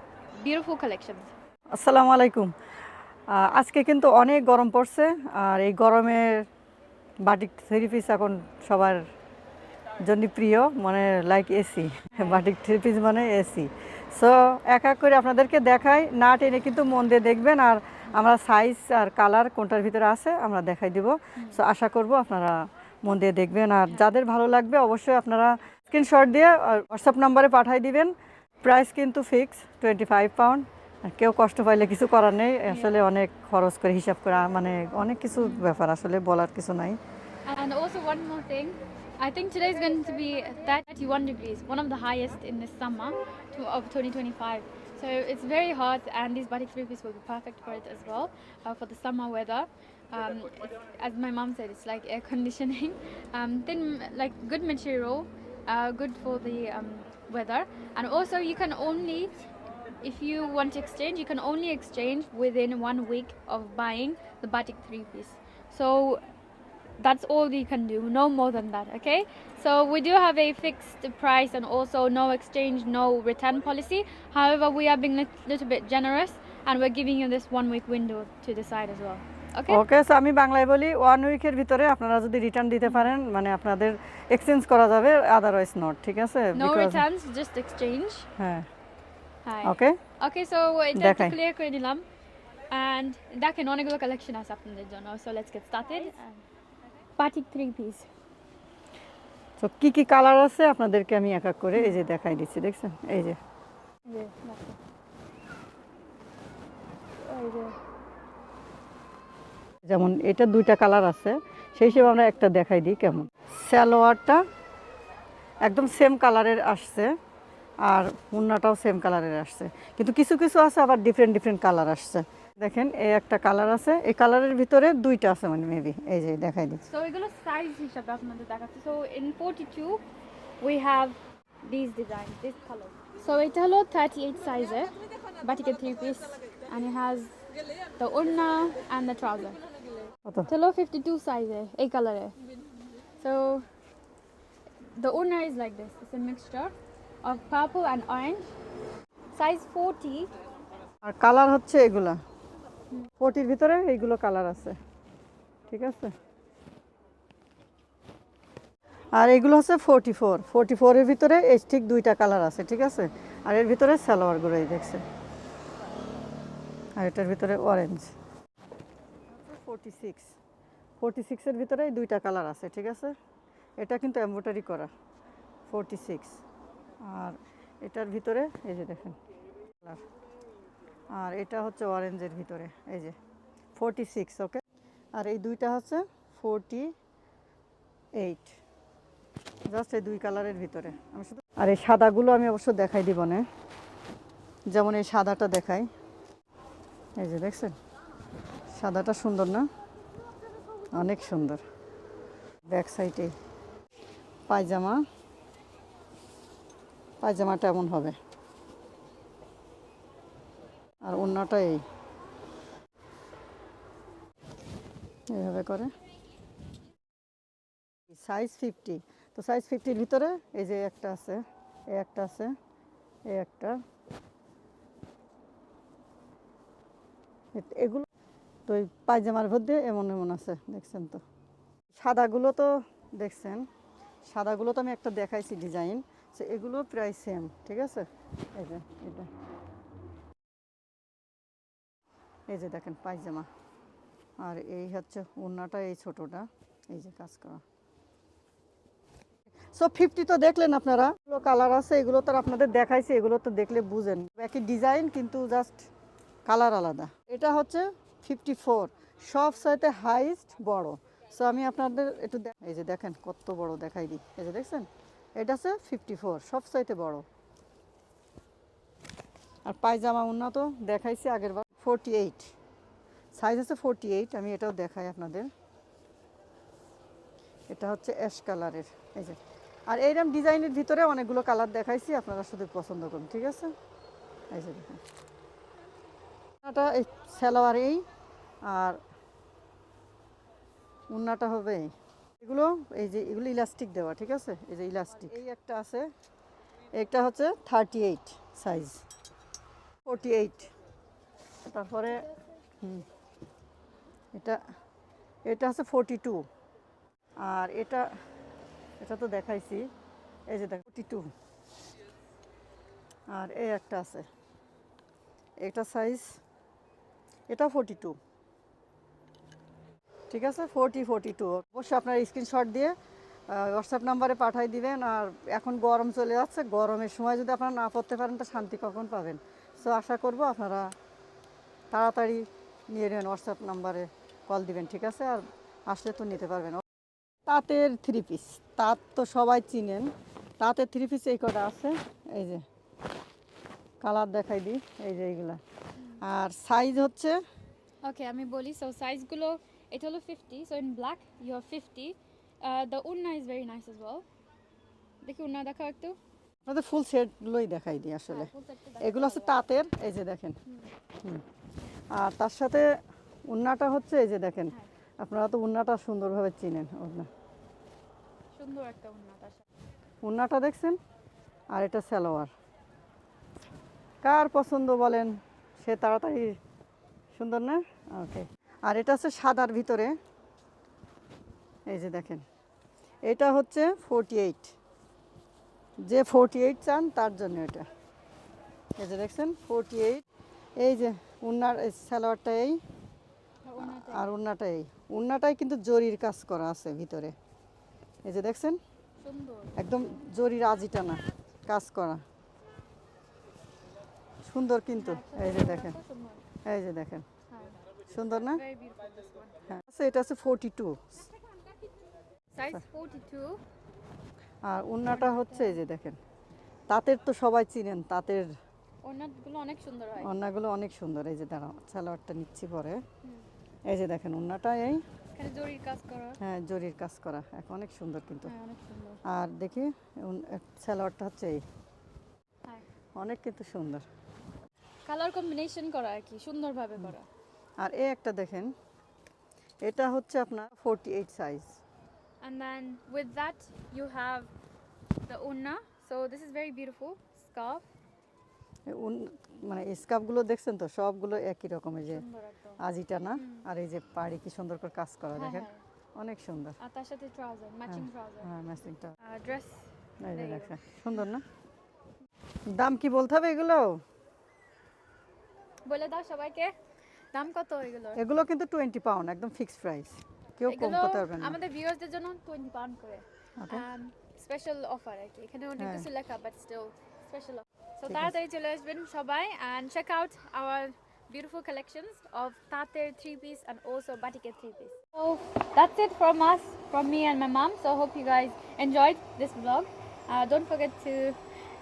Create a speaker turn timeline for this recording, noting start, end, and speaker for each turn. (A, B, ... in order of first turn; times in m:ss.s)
0:00.4-0:01.3 A
0:01.8-0:02.5 B
0:03.3-0:06.5 B
0:07.2-0:09.0 B
0:10.1-0:28.1 B
0:12.1-0:12.4 A
0:21.4-0:21.6 A
0:28.6-0:37.0 B
0:32.7-0:33.0 A
0:35.4-0:35.7 A
0:37.5-0:59.3 A
1:00.0-1:06.2 A
1:07.0-1:19.8 A
1:19.7-1:27.1 B
1:26.5-1:28.3 A
1:28.4-1:28.7 B
1:29.4-1:32.0 A
1:29.6-1:30.0 B
1:31.0-1:31.4 B
1:32.7-1:36.4 A
1:37.2-1:38.1 A
1:39.6-1:43.4 B
1:44.1-1:44.8 A
1:47.2-1:47.8 A
1:49.8-1:54.4 B
1:55.7-1:57.1 B
1:57.8-2:06.8 B
2:06.8-2:10.0 A
2:10.6-2:17.4 A
2:18.0-2:19.6 A
2:20.5-2:22.4 A
2:23.2-2:23.6 A
2:24.9-2:28.5 A
2:29.4-2:30.3 A
2:31.0-2:32.2 B
2:33.2-2:34.8 B
2:35.7-2:36.1 B
2:39.2-2:45.0 B
2:47.0-2:48.1 B
2:49.3-2:50.3 B
2:51.0-2:53.2 B
2:53.8-2:54.9 B
2:55.7-2:56.4 B
2:57.1-2:59.2 B
3:01.1-3:03.2 B
3:03.8-3:04.6 B
3:05.2-3:06.9 B
3:08.2-3:08.6 B
3:09.7-3:13.4 B
3:14.7-3:15.9 B
3:17.2-3:17.8 B
3:18.8-3:19.7 B
3:21.0-3:21.6 B
3:22.7-3:23.3 B
3:24.5-3:25.0 B
3:27.2-3:28.2 B
3:31.0-3:31.8 B
3:35.3-3:35.9 B
3:38.1-3:41.4 B
3:42.0-3:42.5 B
3:43.3-3:43.8 B
3:47.6-3:48.1 B
3:48.7-3:51.2 B
3:51.9-3:53.6 B
3:54.3-3:59.3 B
4:02.5-4:03.5 B
4:04.4-4:07.6 B
4:09.7-4:15.9 B
4:16.5-4:27.2 B
4:29.7-4:32.5 B
4:33.4-4:35.5 B
4:37.7-4:43.7 B
4:44.5-4:45.0 B
4:46.6-4:48.0 B
4:48.6-4:49.0 B
4:51.1-4:56.1 B
4:57.0-4:59.0 B
5:00.0-5:00.7 B
5:01.7-5:02.3 B
5:02.8-5:03.1 B
5:04.3-5:04.6 B
5:05.5-5:06.5 B
5:07.4-5:08.1 B
5:09.0-5:09.9 B
5:10.5-5:11.3 B
5:13.3-5:14.3 B
5:15.6-5:16.4 B
5:17.5-5:18.2 B
5:20.3-5:22.9 B
5:23.5-5:30.9 B
5:31.9-5:36.8 B
5:37.5-5:42.6 B
5:44.0-5:45.6 B
5:46.2-5:47.4 B
5:48.0-5:54.2 A
5:55.2-5:56.2 A
5:56.7-6:00.6 B
5:58.3-5:59.6 A
6:02.1-6:02.9 B
6:03.5-6:07.3 B
6:08.6-6:09.6 A
6:10.2-6:11.0 B
6:11.7-6:12.5 B
6:14.2-6:16.6 B
6:17.4-6:20.2 B
6:21.9-6:22.4 B
6:23.3-6:24.7 B
6:26.0-6:27.9 B
6:29.0-6:30.2 B
6:30.8-6:32.8 B
6:33.6-6:34.3 A
6:33.8-6:37.4 B
6:38.2-6:38.8 B
6:39.2-6:39.8 A
6:39.8-6:42.2 B
6:44.5-6:46.0 B
6:45.0-6:46.4 A
6:46.6-6:47.3 B
6:47.5-6:47.8 A
6:48.1-6:48.6 B
6:48.5-6:49.6 A
6:49.7-6:51.3 B
6:52.5-6:53.6 A
6:54.6-6:56.2 B
6:55.1-6:55.8 A
6:56.9-6:58.5 B
6:59.0-7:00.3 A
7:00.2-7:03.0 B
7:03.9-7:05.0 B
7:05.4-7:06.4 A
7:06.4-7:08.5 B
7:08.4-7:09.2 A
7:09.2-7:11.6 B
7:13.2-7:14.1 B
7:15.1-7:17.3 A
7:17.8-7:18.7 B
7:19.8-7:21.8 B
7:22.4-7:24.5 A
7:25.2-7:27.9 A
7:28.9-7:32.2 B
7:32.1-7:32.8 A
7:32.8-7:36.8 B
7:33.3-7:33.7 A
7:35.4-7:35.8 A
7:36.8-7:38.5 A
7:37.9-7:39.2 B
7:39.2-7:41.0 A
7:40.2-7:41.4 B
7:42.7-7:44.0 B
7:45.8-7:46.7 A
7:47.3-7:48.2 A
7:48.2-7:51.6 B
7:50.7-8:11.4 A
7:53.6-7:53.8 B
7:55.8-7:56.1 B
7:58.1-7:58.4 B